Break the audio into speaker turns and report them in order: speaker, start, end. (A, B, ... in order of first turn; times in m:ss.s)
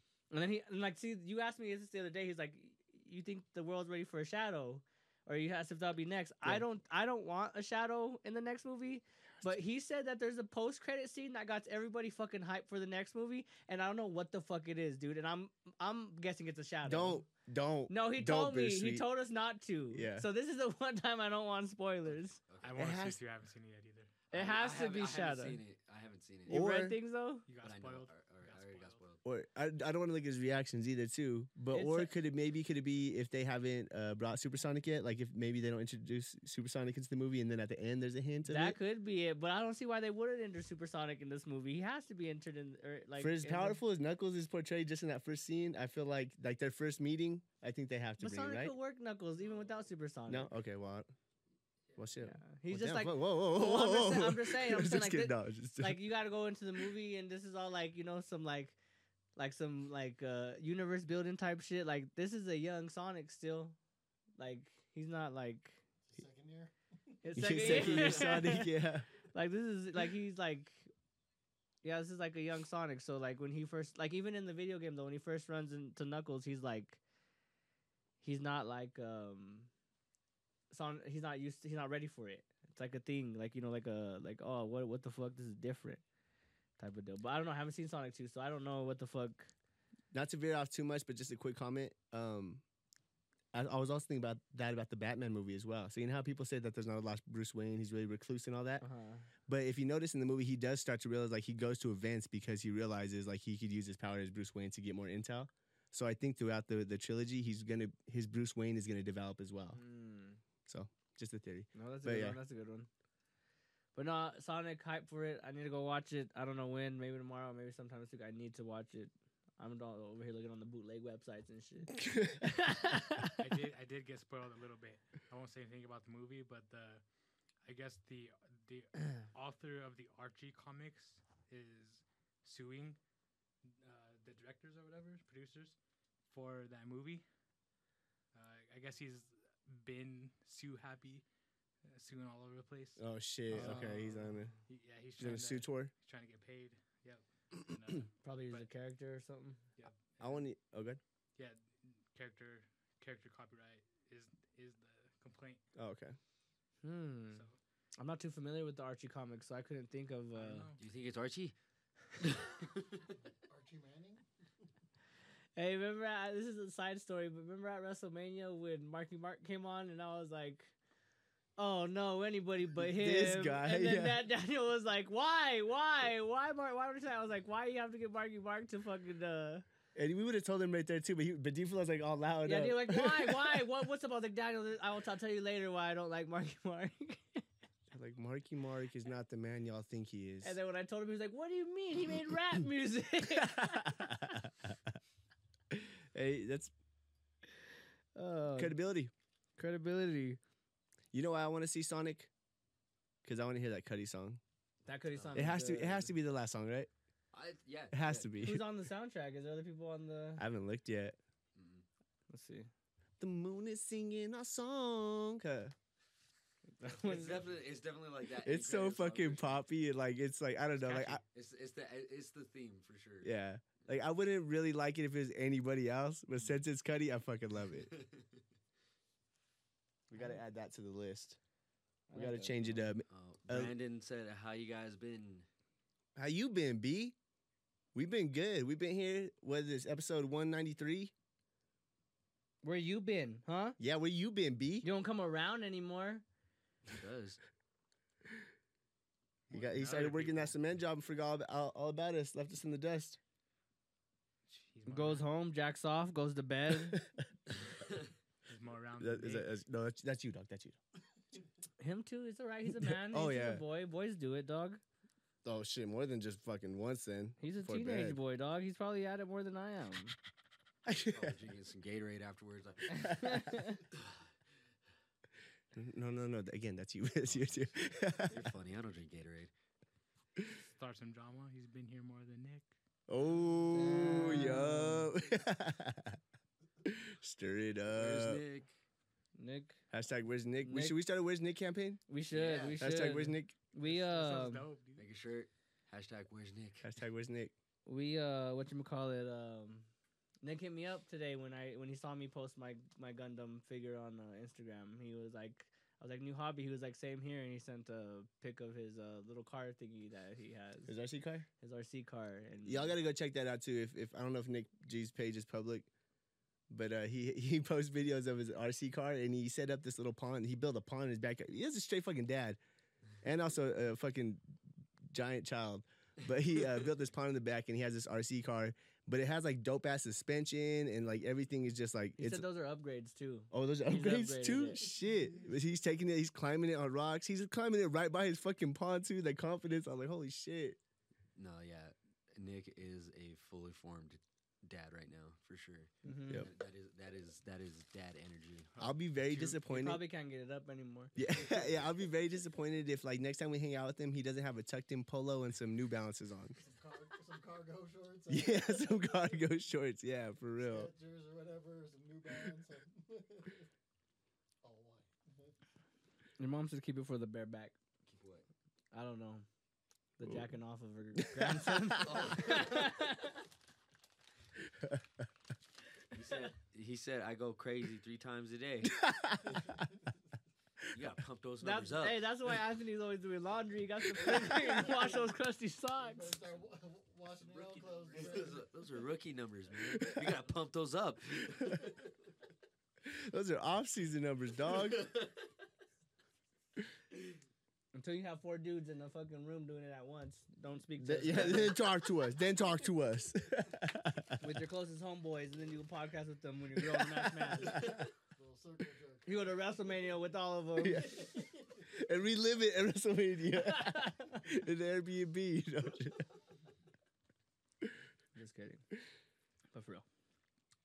0:00.3-0:17.2 A
0:16.8-0:19.0 B
0:17.9-0:22.4 A
0:19.9-0:20.3 B
0:22.5-0:22.8 C
0:22.6-0:25.0 D
0:22.8-0:23.2 B
0:24.3-0:26.6 C
0:24.3-0:25.6 A
0:26.5-0:27.0 B
0:26.5-0:27.4 A
0:27.5-0:29.0 D
0:27.6-0:29.2 C
0:29.2-0:38.8 B
0:31.7-0:32.1 A
0:38.4-0:43.8 A
0:43.2-0:48.7 B
0:48.2-0:50.5 A
0:50.3-0:51.1 B
0:52.0-0:56.0 B
0:52.2-0:58.8 A
0:59.4-1:03.8 A
1:04.4-1:05.8 A
1:06.1-1:06.7 E
1:07.2-1:08.7 A
1:07.3-1:09.1 B
1:07.4-1:08.3 C
1:09.3-1:10.9 A
1:11.8-1:17.0 A
1:18.2-1:19.7 A
1:20.7-1:26.0 A
1:26.8-1:29.5 A
1:30.1-1:32.6 B
1:33.5-1:38.8 B
1:38.8-1:39.3 A
1:39.5-1:49.8 B
1:49.7-1:50.4 A
1:50.6-1:52.4 B
1:51.7-1:52.9 A
1:53.9-2:02.0 A
2:02.0-2:02.5 B
2:02.6-2:03.3 A
2:03.4-2:07.0 D
2:07.6-2:13.0 D
2:13.7-2:15.8 D
2:16.3-2:17.2 D
2:18.3-2:21.2 D
2:21.8-2:23.0 D
2:23.0-2:24.5 B
2:23.5-2:24.2 A
2:23.6-2:24.1 D
2:24.6-2:28.7 D
2:25.2-2:25.9 B
2:28.2-2:29.6 A
2:29.8-2:30.4 D
2:30.2-2:31.0 B
2:31.4-2:35.6 D
2:35.8-2:36.2 B
2:36.8-2:37.4 A
2:37.3-2:37.6 D
2:38.0-2:40.7 A
2:40.3-2:40.8 D
2:40.8-2:41.5 C
2:42.1-2:43.0 C
2:43.5-2:44.2 E
2:45.6-2:50.7 A
2:51.6-2:59.6 A
2:52.8-2:54.2 B
2:59.9-3:03.7 B
3:02.4-3:07.4 A
3:07.9-3:10.6 B
3:10.4-3:14.2 A
3:13.3-3:14.7 B
3:15.7-3:16.7 B
3:18.2-3:18.8 A
3:18.5-3:19.1 B
3:19.6-3:20.4 A
3:21.1-3:22.3 B
3:23.2-3:24.4 B
3:24.8-3:26.1 A
3:25.1-3:25.5 C
3:25.3-3:26.9 B
3:27.3-3:28.5 C
3:27.9-3:28.6 B
3:28.4-3:30.4 A
3:30.4-3:31.2 B
3:31.5-3:31.8 C
3:32.3-3:32.7 A
3:33.2-3:35.7 B
3:36.8-3:37.5 A
3:36.9-3:39.6 C
3:38.4-3:41.2 B
3:40.8-3:44.0 C
3:43.2-3:47.9 B
3:47.7-3:48.4 C
3:50.1-3:51.4 B
3:52.1-3:52.9 A
3:52.1-3:53.7 B
3:53.1-3:55.5 C
3:56.2-3:57.1 B
3:57.9-4:01.1 B
4:02.6-4:03.8 A
4:03.8-4:04.8 B
4:04.8-4:06.2 A
4:06.9-4:07.4 C
4:09.5-4:13.2 B
4:09.5-4:10.5 D
4:14.5-4:15.2 D
4:14.9-4:17.0 A
4:18.4-4:19.5 D
4:19.0-4:20.8 B
4:21.8-4:24.8 A
4:22.8-4:23.6 B
4:25.4-4:28.2 B
4:27.4-4:30.2 A
4:30.8-4:31.4 B
4:31.0-4:34.3 C
4:33.0-4:33.4 B
4:33.2-4:33.8 A
4:35.7-4:38.5 B
4:37.2-4:37.6 C
4:38.2-4:39.5 C
4:40.5-4:42.7 D
4:43.1-4:46.2 B
4:43.7-4:45.1 A
4:46.8-4:48.4 B
4:47.9-4:48.7 C
4:49.4-4:49.8 A
4:49.9-4:52.0 B
4:50.6-4:51.0 A
4:52.1-4:54.6 A
4:52.3-4:52.8 C
4:52.4-4:52.8 E
4:52.8-4:53.5 B
4:53.8-4:55.1 D
4:55.0-4:56.9 C
4:56.8-4:57.5 B
4:57.8-4:59.9 A
5:00.4-5:10.9 A
5:10.9-5:11.5 B
5:11.6-5:13.0 A
5:12.6-5:15.9 B
5:16.7-5:22.6 B
5:23.2-5:24.5 B
5:25.1-5:32.4 B
5:32.2-5:34.9 A
5:33.5-5:40.8 B
5:34.8-5:35.6 E
5:41.4-5:48.7 C
5:46.0-5:46.5 A
5:48.7-5:49.6 D
5:48.8-5:50.0 B
5:49.6-5:51.1 A
5:51.2-5:56.6 B
5:56.6-5:59.2 E
5:58.3-6:00.9 B
6:00.6-6:03.7 E
6:04.6-6:05.5 E
6:06.4-6:07.8 A
6:08.0-6:08.4 C
6:08.9-6:09.4 A
6:10.2-6:13.4 A
6:11.2-6:12.2 B
6:12.0-6:13.0 C
6:14.8-6:15.3 B
6:16.1-6:19.0 C
6:18.9-6:19.8 B
6:19.5-6:20.0 E
6:20.9-6:22.3 C
6:21.6-6:26.4 A
6:24.2-6:24.6 B
6:24.5-6:25.3 E
6:26.0-6:28.7 E
6:28.1-6:31.8 C
6:29.9-6:30.3 B
6:33.0-6:35.1 B
6:34.8-6:35.3 C
6:37.9-6:41.8 A
6:41.0-6:44.4 B
6:44.4-6:47.8 A
6:46.8-6:48.0 B
6:47.8-6:50.2 E
6:49.2-6:51.2 A
6:50.8-6:56.3 B
6:50.9-6:51.8 E
6:53.6-6:54.4 A
6:58.3-6:58.8 A
6:59.7-7:00.0 A